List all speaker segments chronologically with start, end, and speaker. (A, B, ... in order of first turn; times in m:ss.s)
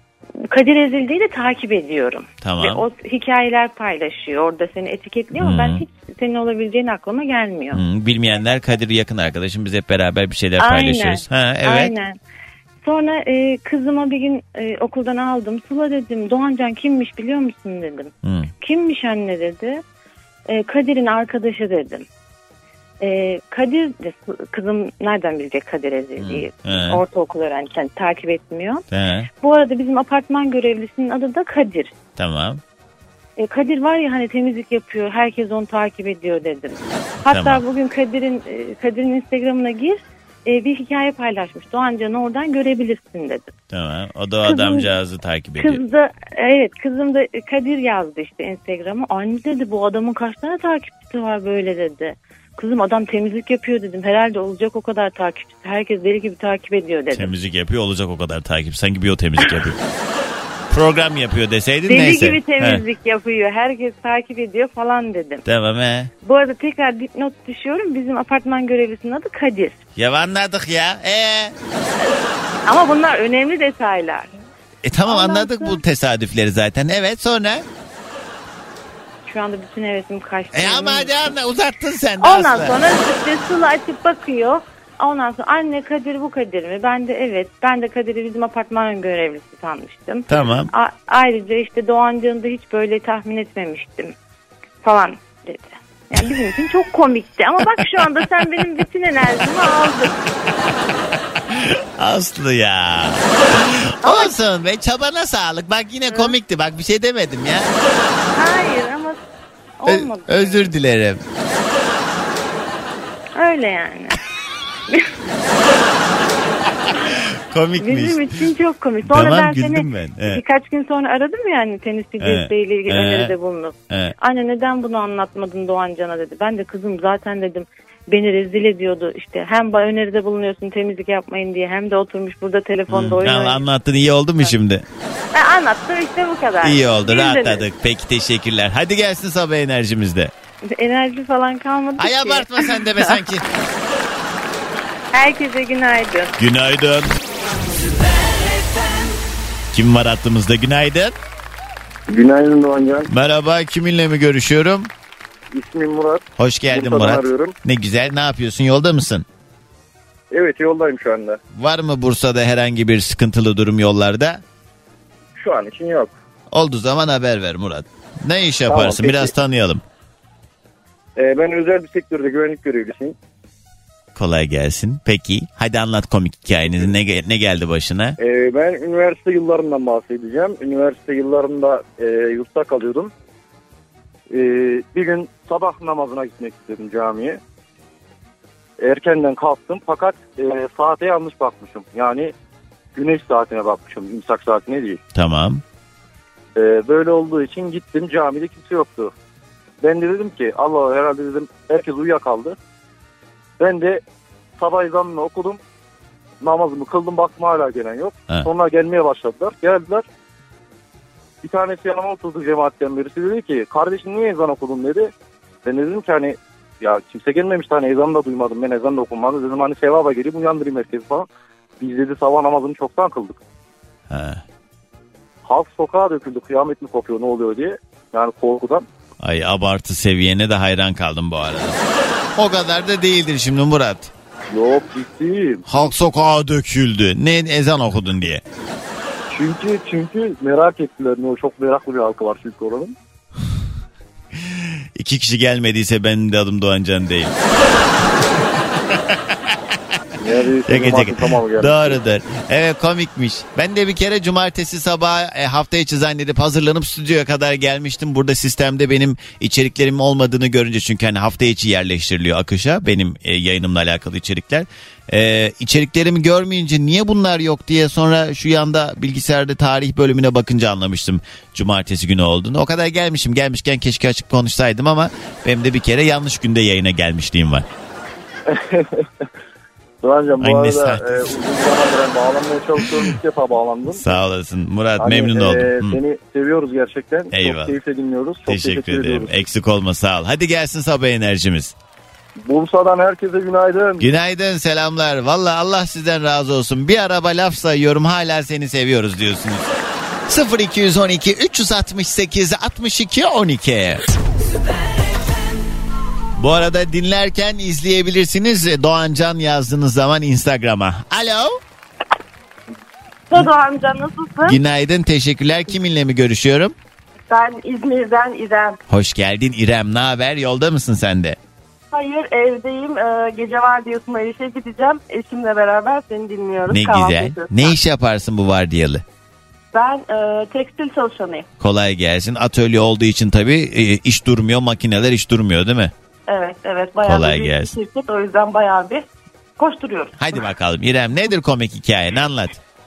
0:00.5-0:07.8 A
0:02.4-0:02.8 B
0:05.4-0:05.8 B
0:07.7-0:11.9 B
0:10.6-0:12.2 A
0:12.8-0:19.8 A
0:18.2-0:18.5 B
0:20.5-0:22.1 A
0:23.0-0:28.8 A
0:26.2-0:27.0 B
0:28.9-0:29.3 B
0:29.4-0:31.9 A
0:32.2-0:32.6 B
0:33.4-0:43.5 A
0:37.3-0:37.6 B
0:43.7-0:45.8 B
0:44.4-0:44.9 A
0:45.6-0:57.3 A
0:57.1-0:59.8 B
1:00.7-1:02.8 B
1:01.9-1:05.4 A
1:05.4-1:06.1 B
1:06.2-1:09.8 A
1:10.0-1:11.6 B
1:12.7-1:14.3 A
1:14.8-1:17.7 B
1:15.0-1:15.8 A
1:19.3-1:21.4 A
1:20.5-1:22.7 B
1:22.2-1:34.2 A
1:30.3-1:30.7 B
1:34.8-1:40.1 A
1:37.6-1:38.1 B
1:41.5-1:47.7 B
1:44.0-1:44.3 A
1:46.1-1:46.4 A
1:48.3-1:49.2 A
1:49.8-1:50.7 A
1:49.9-1:51.2 B
1:53.4-1:54.2 A
1:57.0-1:58.4 B
1:57.8-2:13.6 A
1:59.0-2:00.4 B
2:02.2-2:03.3 B
2:12.9-2:14.8 B
2:15.3-2:17.6 A
2:16.6-2:20.3 B
2:20.8-2:23.3 A
2:22.0-2:23.4 B
2:25.1-2:26.4 A
2:26.4-2:27.1 B
2:29.7-2:31.2 B
2:32.1-2:33.1 C
2:33.1-2:34.9 B
2:35.5-2:37.5 C
2:36.4-2:39.3 B
2:40.3-2:41.4 C
2:41.6-2:44.4 B
2:45.4-2:46.1 C
2:46.5-2:49.8 B
2:48.7-2:49.3 C
2:51.2-2:53.2 C
2:54.2-2:58.2 B
2:58.2-3:03.1 C
3:04.3-3:07.4 C
3:08.8-3:12.3 C
3:13.0-3:15.0 C
3:15.1-3:15.6 B
3:16.6-3:19.1 C
3:19.8-3:22.6 C
3:23.6-3:24.0 C
3:24.6-3:25.6 C
3:26.4-3:30.0 C
3:31.4-3:35.1 C
3:35.6-3:41.3 C
3:41.8-3:43.4 C
3:44.1-3:44.4 B
3:45.5-3:48.8 C
3:49.2-3:51.8 B
3:52.4-3:54.1 B
3:54.5-3:55.6 C
3:55.7-3:58.4 B
3:59.3-4:03.0 C
4:04.4-4:07.3 B
4:08.9-4:09.6 B
4:10.2-4:12.0 C
4:10.7-4:37.7 B
4:38.5-4:39.1 C
4:40.0-4:44.1 C
4:40.4-4:41.3 B
4:43.9-4:46.0 B
4:45.0-4:49.4 C
4:47.3-4:47.8 B
4:48.5-4:51.8 B
4:52.4-4:54.0 C
4:54.0-4:59.7 B
5:00.3-5:04.0 B
5:06.4-5:11.6 B
5:14.4-5:16.8 B
5:18.9-5:21.4 B
5:26.0-5:27.7 D
5:26.7-5:29.0 B
5:30.6-5:31.1 D
5:31.6-5:35.9 B
5:36.5-5:38.9 D
5:37.0-5:37.8 B
5:39.9-5:40.1 D
5:40.2-5:42.6 B